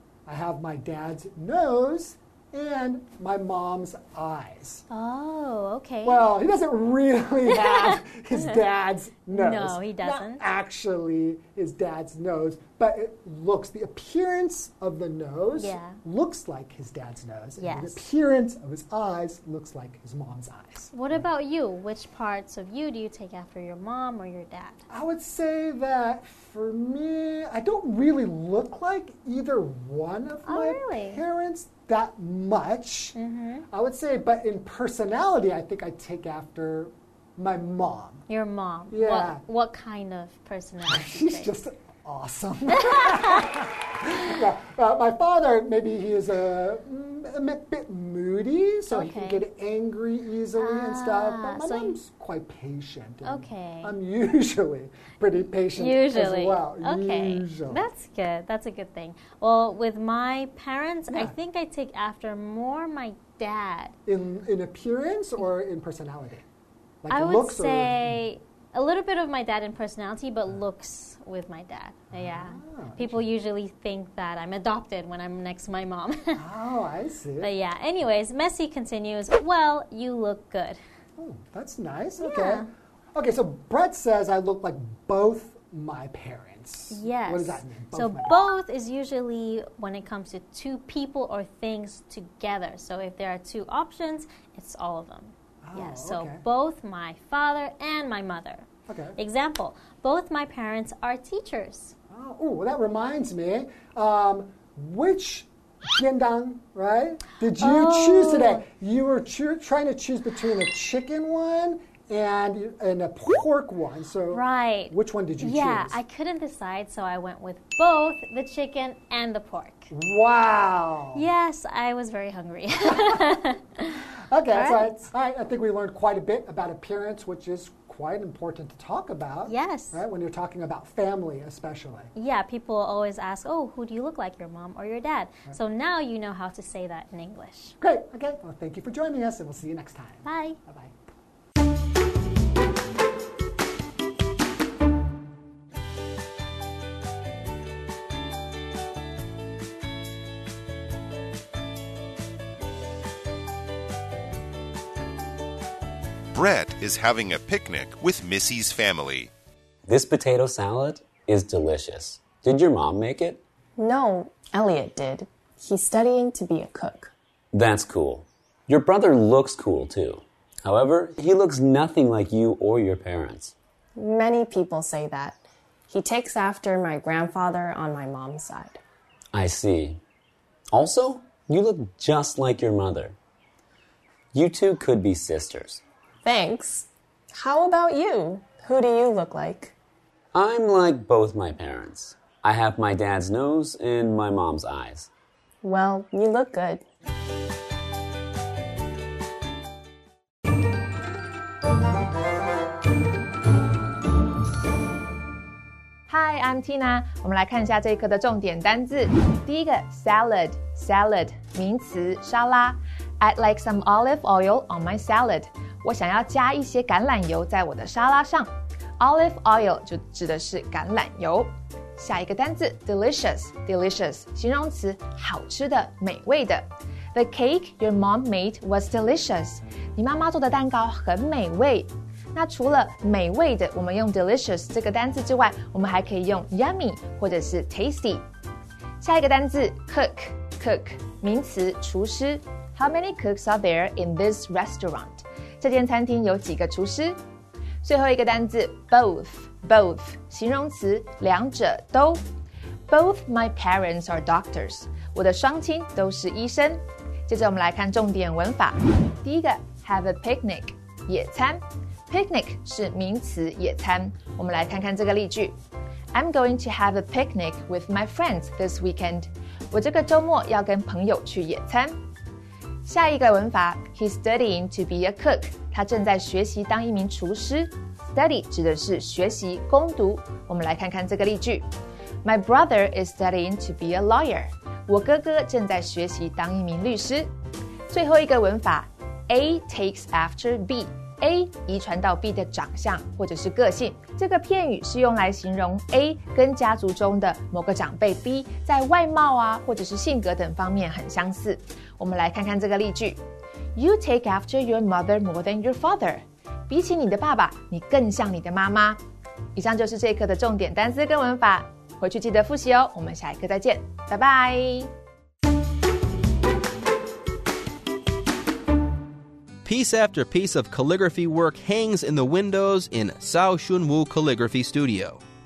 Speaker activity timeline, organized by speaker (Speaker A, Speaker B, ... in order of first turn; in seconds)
Speaker A: 0.2-4.8, 6.0-21.3, 24.9-33.2, 33.7-38.3, 38.9-39.4, 40.9-57.9, 61.1-61.3, 64.1-66.4, 67.0-68.2, 72.1-73.3, 76.3-77.5, 81.2-88.4, 95.6-96.4, 98.9-99.2, 102.1-116.0, 119.9-121.3, 122.9-123.4, 124.2-132.1, 137.8-140.9
Speaker B: 4.9-6.2, 7.5-8.6, 9.3-10.4, 15.6-16.0, 17.6-18.0, 20.9-24.8, 30.5-31.2, 33.1-33.6, 38.3-41.5, 42.8-43.5, 48.9-49.5, 50.6-52.0, 53.2-53.9, 55.7-64.0, 67.1-76.4, 77.4-80.8, 82.2-82.7, 86.9-102.0, 107.6-108.7, 114.3-119.9, 121.1-125.0, 129.4-130.0, 132.1-137.8, 140.2-140.6
Speaker C: 156.3-159.3
Speaker D: 159.9-163.4, 167.5-173.5, 179.3-180.0, 180.7-183.2, 184.3-185.8, 190.3-195.1
Speaker E: 163.8-167.1, 174.0-178.8, 186.2-189.7, 195.6-196.8
Speaker F: 206.1-238.2, 239.0-247.2, 247.8-252.2, 252.9-265.5, 266.1-272.0, 272.9-281.6, 282.2-287.3, 287.9-303.2, 303.8-309.0, 309.6-314.9
Speaker G: 319.6-325.2